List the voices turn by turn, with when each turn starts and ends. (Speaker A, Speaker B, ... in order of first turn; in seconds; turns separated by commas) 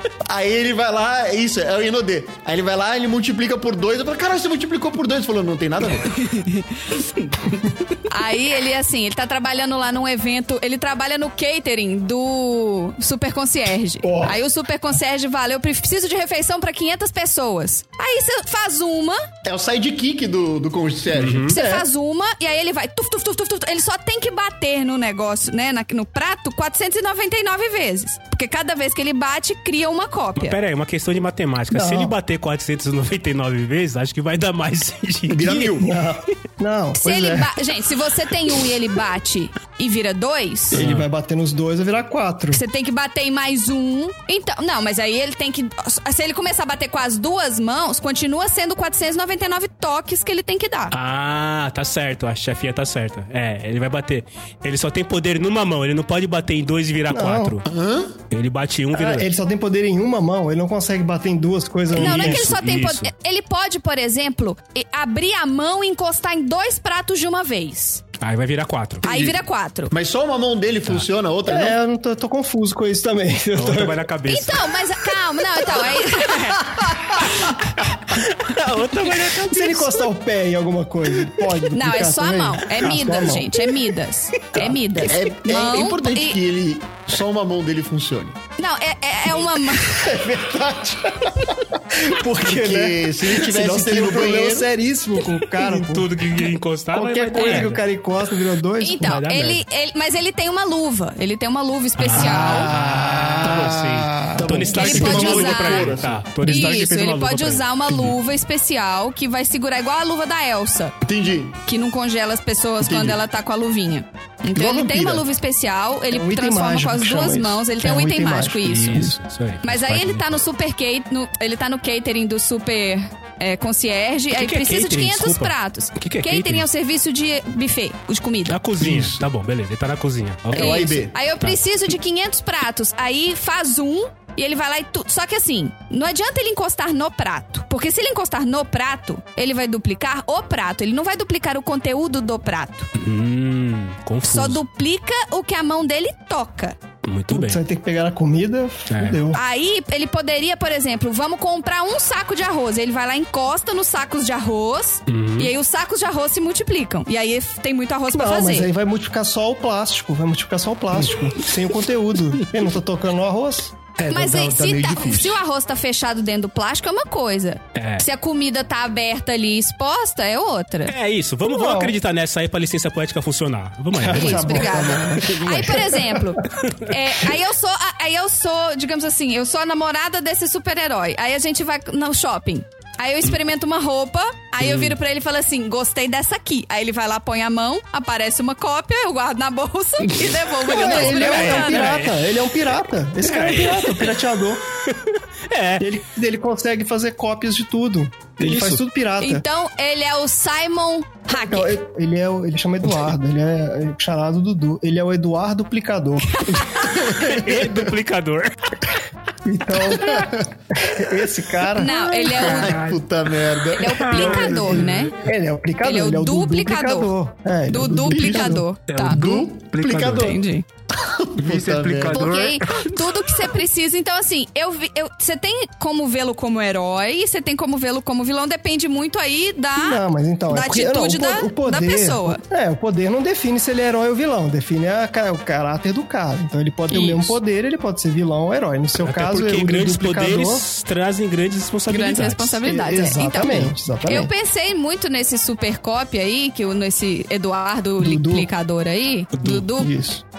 Speaker A: 0.3-6.3, Speaker B: 6.3-6.7, Speaker B: 8.1-19.2, Speaker C: 14.0-14.4, Speaker A: 19.4-21.6, Speaker D: 21.1-21.6, Speaker B: 21.5-30.6, Speaker C: 21.6-21.8, Speaker D: 30.4-35.9, Speaker C: 31.7-32.1, Speaker A: 35.3-35.9, Speaker C: 35.8-37.6, Speaker B: 37.0-40.8, Speaker C: 40.7-42.6, Speaker D: 40.7-41.1, Speaker B: 42.5-50.9, Speaker D: 50.9-57.7, Speaker C: 57.1-57.6, Speaker A: 57.7-58.2, Speaker D: 58.3-59.3, Speaker C: 58.9-62.5, Speaker D: 61.9-63.1, Speaker B: 62.0-68.0, Speaker D: 68.2-69.0, Speaker B: 69.0-69.9, Speaker A: 69.0-69.4, Speaker A: 69.9-71.8, Speaker C: 71.5-74.0, Speaker D: 73.5-74.7, Speaker B: 74.3-77.7, Speaker C: 76.7-77.4, Speaker D: 78.1-80.0, Speaker C: 79.2-83.8, Speaker B: 81.7-86.4, Speaker C: 84.5-85.0, Speaker A: 85.0-88.4, Speaker B: 88.6-90.1, Speaker C: 89.8-96.2, Speaker A: 92.4-94.7, Speaker D: 95.5-97.8, Speaker C: 96.9-99.3, Speaker B: 98.8-102.7, Speaker D: 99.0-99.6, Speaker D: 102.0-108.2, Speaker C: 102.2-105.0, Speaker A: 102.2-106.3, Speaker B: 104.7-111.0, Speaker C: 106.4-106.8, Speaker A: 111.0-111.6, Speaker B: 111.7-119.1, Speaker A: 112.8-113.2, Speaker A: 114.5-115.2, Speaker C: 116.1-119.2, Speaker D: 118.7-120.4, Speaker B: 119.6-128.6, Speaker D: 124.3-126.7, Speaker D: 128.5-131.6, Speaker A: 128.8-129.2, Speaker A: 130.5-131.2, Speaker B: 130.5-142.9, Speaker D: 143.0-144.6, Speaker B: 144.2-146.8, Speaker D: 147.1-147.6, Speaker C: 147.3-149.4, Speaker D: 148.9-149.2, Speaker B: 149.3-158.7, Speaker D: 155.1-155.5, Speaker C: 158.1-163.8, Speaker A: 164.0-165.4, Speaker B: 164.1-170.9, Speaker D: 167.8-168.1, Speaker D: 170.9-174.9, Speaker C: 171.4-172.0, Speaker C: 173.9-176.3, Speaker B: 174.1-192.0, Speaker D: 176.5-176.9, Speaker D: 184.6-185.0, Speaker D: 190.1-192.3, Speaker C: 190.7-194.7, Speaker D: 193.2-194.2, Speaker D: 194.9-195.9, Speaker C: 195.8-199.4, Speaker D: 198.4-198.8, Speaker B: 199.2-201.8, Speaker C: 201.3-206.5, Speaker B: 206.3-207.0, Speaker A: 206.7-207.9, Speaker D: 206.9-208.7, Speaker C: 209.4-212.6, Speaker A: 209.8-210.5, Speaker B: 211.8-212.8, Speaker D: 212.3-213.0, Speaker A: 212.4-214.9, Speaker B: 213.7-215.2, Speaker D: 213.8-215.1, Speaker C: 214.7-218.7, Speaker B: 215.8-217.1, Speaker B: 217.7-219.4, Speaker A: 218.1-220.4, Speaker D: 218.9-220.4, Speaker B: 220.1-220.7, Speaker A: 220.9-222.3, Speaker D: 221.4-223.5, Speaker B: 222.1-232.4, Speaker C: 229.8-240.6, Speaker B: 236.9-237.4, Speaker D: 239.0-242.6, Speaker B: 241.9-249.9, Speaker C: 242.7-244.3, Speaker C: 248.0-248.5, Speaker D: 249.4-249.7, Speaker C: 249.6-250.2